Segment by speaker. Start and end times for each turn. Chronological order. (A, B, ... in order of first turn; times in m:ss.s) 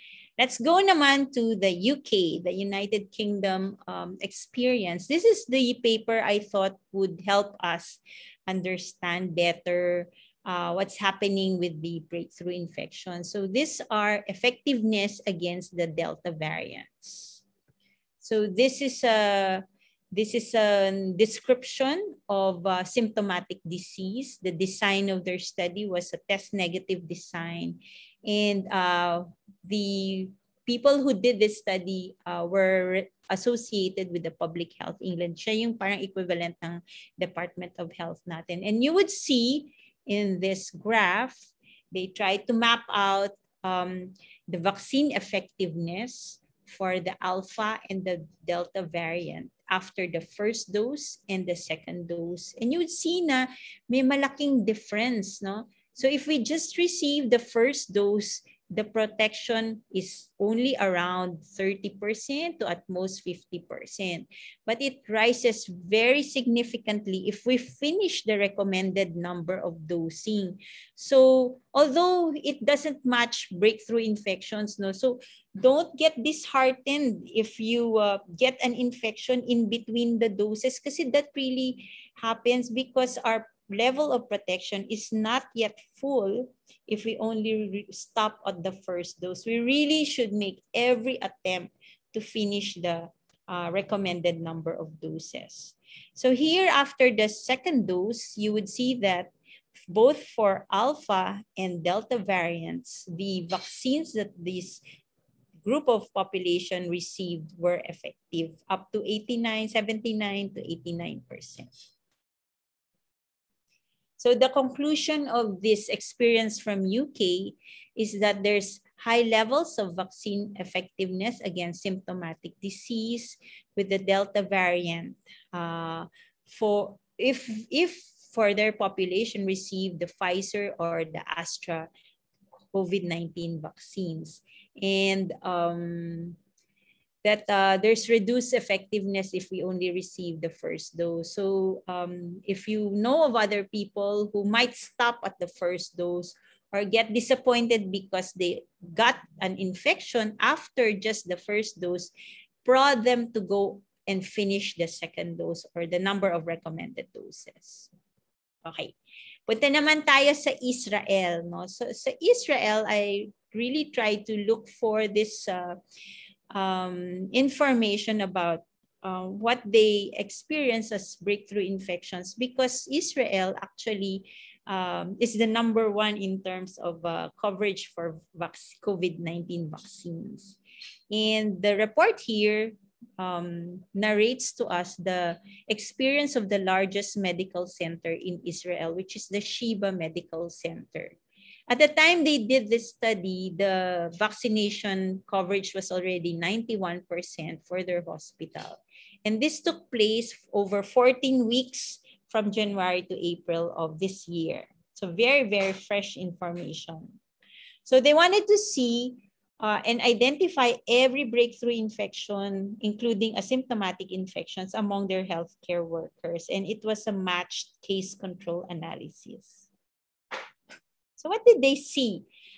0:00.4-0:17.4 A
0:18.2-1:39.3 A
1:39.9-1:44.8 A
1:45.6-1:51.7 A
1:54.2-2:11.9 A
2:12.7-2:16.4 A
2:17.2-2:32.1 A
2:32.6-2:37.9 A
2:38.6-2:39.0 A
2:39.5-2:45.8 A
2:46.5-3:00.6 A
3:01.1-3:11.2 A
3:11.7-3:27.2 A
3:27.9-3:39.7 A
3:41.2-3:42.2 A